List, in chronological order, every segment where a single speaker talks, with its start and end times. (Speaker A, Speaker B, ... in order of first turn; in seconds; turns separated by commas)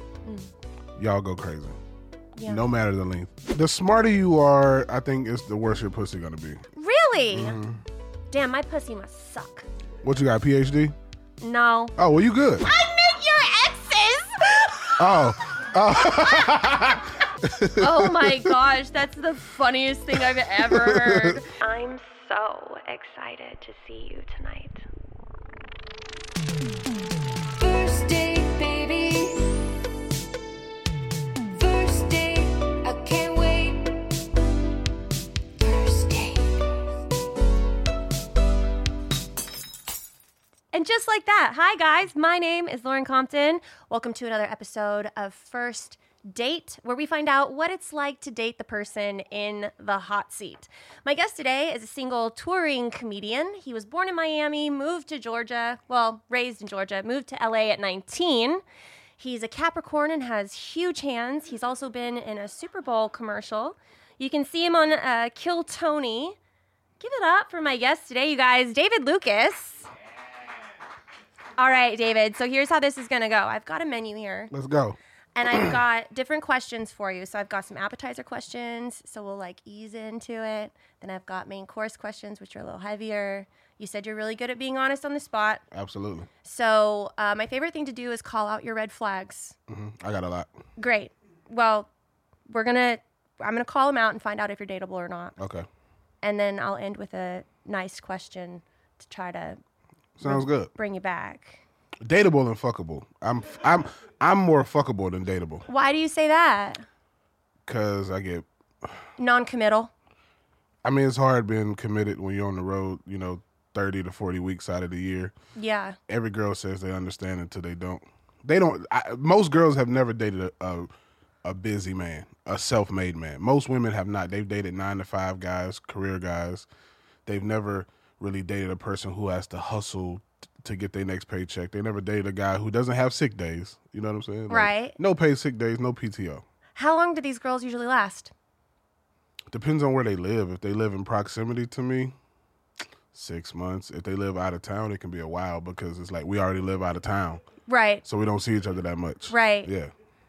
Speaker A: 1.0-1.8, Speaker A: 2.5-6.6, Speaker B: 6.8-7.6, Speaker A: 7.3-7.8, Speaker B: 8.3-9.7, Speaker A: 10.0-10.9, Speaker B: 11.4-11.9, Speaker A: 12.0-12.7, Speaker B: 12.6-15.0, Speaker A: 15.0-18.5, Speaker B: 17.8-24.9, Speaker A: 20.6-21.4, Speaker C: 27.6-29.6, Speaker C: 31.6-34.2, Speaker C: 35.6-36.8, Speaker B: 40.7-58.6, Speaker B: 59.2-66.3, Speaker B: 67.0-69.9, Speaker B: 71.6-74.5, Speaker A: 74.5-75.0, Speaker B: 75.3-85.6, Speaker A: 75.5-75.8, Speaker A: 85.7-86.3, Speaker B: 86.4-89.5, Speaker A: 89.7-90.5, Speaker B: 90.8-91.9, Speaker B: 92.5-95.3, Speaker A: 95.4-95.7, Speaker B: 96.2-99.6, Speaker A: 100.2-100.7, Speaker B: 100.2-101.6, Speaker A: 102.0-105.6, Speaker B: 105.7-106.8, Speaker A: 107.7-109.0, Speaker B: 109.2-109.9, Speaker A: 110.8-115.3, Speaker B: 115.5-116.0, Speaker A: 116.1-120.9, Speaker A: 121.4-126.7, Speaker A: 127.2-136.4, Speaker B: 134.5-134.9, Speaker B: 136.8-138.3, Speaker A: 139.5-142.1, Speaker A: 143.1-147.4, Speaker B: 147.7-148.0, Speaker A: 148.0-149.9, Speaker B: 149.3-149.7